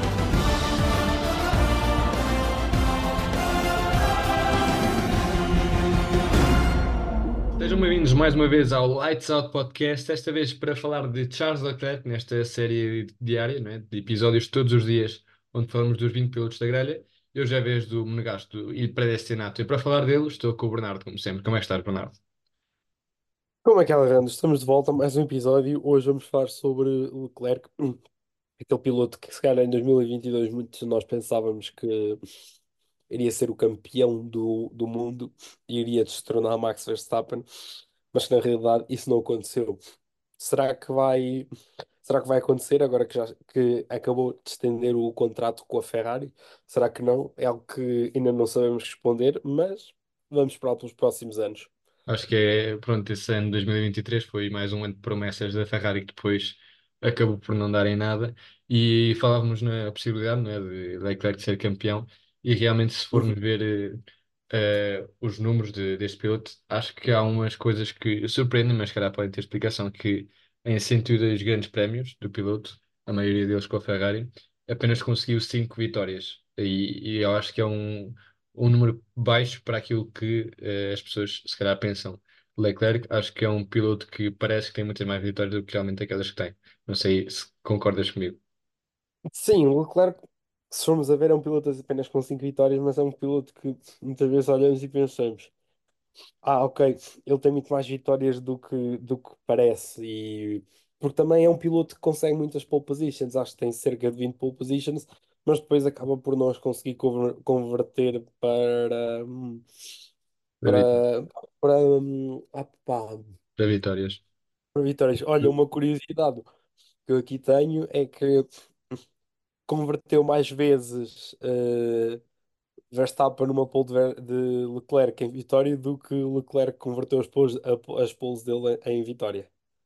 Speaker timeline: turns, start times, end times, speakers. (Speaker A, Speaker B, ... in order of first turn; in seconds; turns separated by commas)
Speaker A: 7.6-22.2, Speaker B: 23.6-27.7, Speaker B: 28.6-32.2, Speaker B: 33.1-37.5, Speaker B: 38.1-39.8, Speaker B: 40.4-41.5, Speaker B: 42.0-51.7, Speaker A: 52.1-64.0, Speaker A: 64.5-88.4, Speaker B: 89.3-95.5, Speaker B: 96.4-109.6, Speaker A: 110.6-110.9, Speaker B: 110.6-113.2, Speaker A: 113.6-114.2, Speaker B: 114.7-116.5, Speaker B: 117.0-118.5, Speaker B: 119.7-122.2, Speaker B: 122.9-129.5